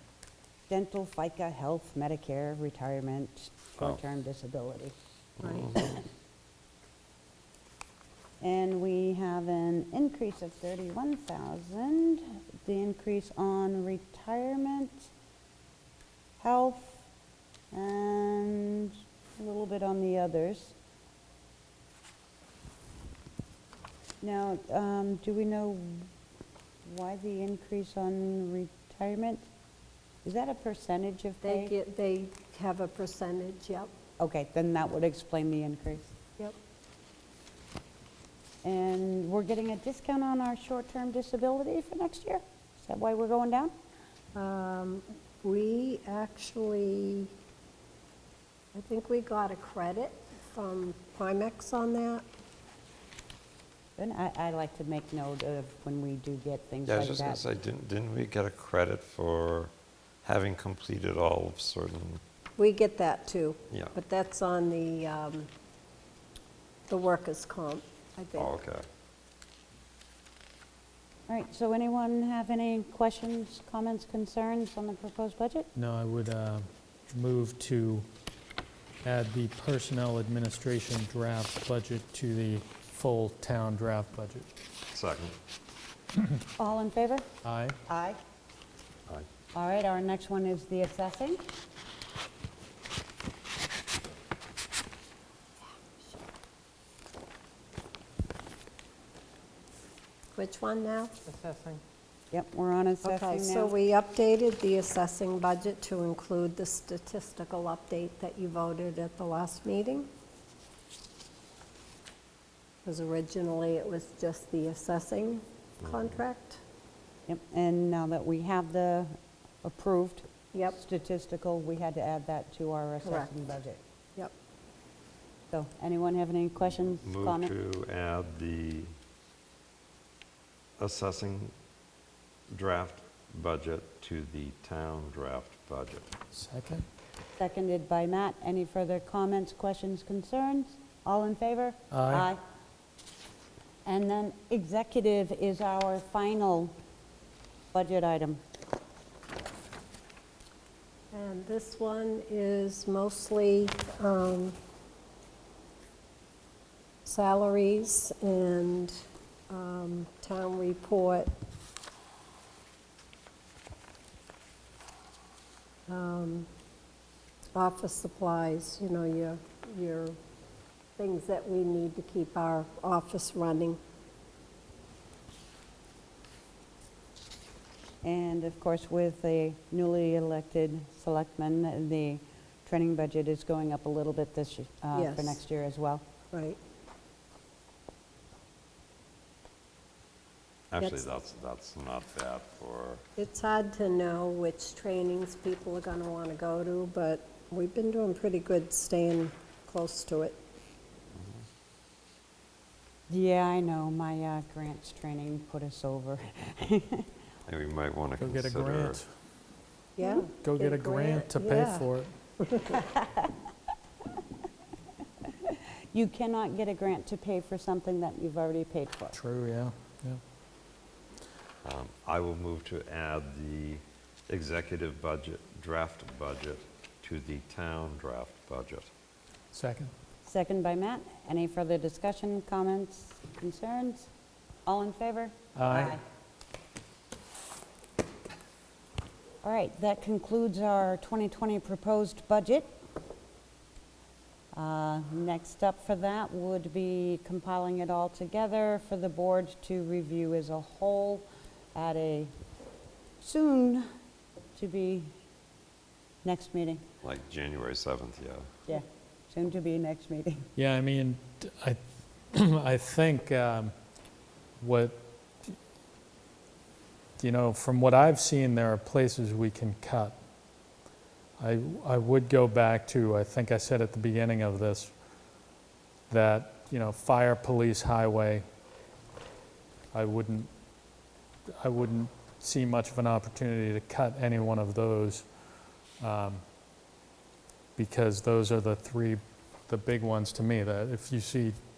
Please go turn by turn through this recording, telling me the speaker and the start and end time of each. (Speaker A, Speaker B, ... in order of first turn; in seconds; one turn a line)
Speaker A: 0.7-4.9
Speaker B: 5.4-5.7
Speaker A: 5.7-6.0
Speaker A: 8.4-15.1
Speaker A: 16.4-17.0
Speaker A: 17.7-20.7
Speaker A: 24.2-26.1
Speaker A: 26.8-29.4
Speaker A: 30.2-31.7
Speaker C: 31.4-33.9
Speaker A: 34.2-36.1
Speaker A: 38.6-43.7
Speaker C: 44.3-47.3
Speaker C: 48.7-52.2
Speaker A: 54.0-57.4
Speaker B: 56.9-59.7
Speaker B: 60.2-62.2
Speaker C: 62.6-65.5
Speaker C: 66.9-68.5
Speaker B: 68.4-68.8
Speaker A: 71.3-75.7
Speaker D: 75.8-78.1
Speaker D: 79.0-84.5
Speaker B: 84.9-85.3
Speaker A: 86.6-87.3
Speaker D: 87.4-87.8
Speaker A: 87.9-88.2
Speaker A: 89.5-91.4
Speaker C: 100.3-101.2
Speaker A: 102.3-103.7
Speaker C: 103.0-110.1
Speaker C: 112.8-116.6
Speaker A: 117.3-123.8
Speaker C: 120.5-120.8
Speaker C: 123.0-123.3
Speaker A: 125.5-127.5
Speaker B: 126.9-128.9
Speaker B: 130.8-131.5
Speaker B: 132.5-136.1
Speaker D: 136.3-136.8
Speaker A: 137.4-142.4
Speaker D: 141.9-142.2
Speaker A: 143.8-146.7
Speaker A: 147.7-148.4
Speaker C: 151.1-154.6
Speaker C: 157.0-161.3
Speaker C: 165.9-166.5
Speaker C: 167.5-170.2
Speaker C: 171.0-173.8
Speaker A: 178.0-186.0
Speaker C: 184.9-185.4
Speaker C: 186.3-186.6
Speaker B: 190.7-193.0
Speaker C: 190.8-191.1
Speaker C: 193.2-200.4
Speaker A: 203.1-207.1
Speaker B: 207.5-209.0
Speaker D: 208.2-209.1
Speaker C: 210.0-211.9
Speaker D: 210.0-212.1
Speaker C: 212.4-212.8
Speaker A: 212.7-213.3
Speaker A: 215.2-219.2
Speaker D: 219.1-220.2
Speaker B: 221.6-228.9
Speaker D: 229.5-229.9
Speaker A: 230.2-234.1
Speaker A: 234.7-236.0
Speaker D: 235.5-236.0
Speaker A: 239.4-242.7
Speaker A: 244.5-252.3
Speaker A: 253.2-253.9
Speaker A: 254.6-255.1
Speaker A: 256.2-256.8
Speaker B: 257.0-258.5
Speaker A: 258.7-260.4
Speaker D: 260.6-261.8
Speaker D: 262.3-263.7
Speaker D: 264.6-265.5
Speaker D: 267.2-270.2
Speaker D: 271.4-274.9
Speaker D: 276.1-278.4
Speaker D: 279.9-280.5
Speaker D: 281.6-285.3
Speaker D: 286.0-286.4
Speaker D: 287.8-291.6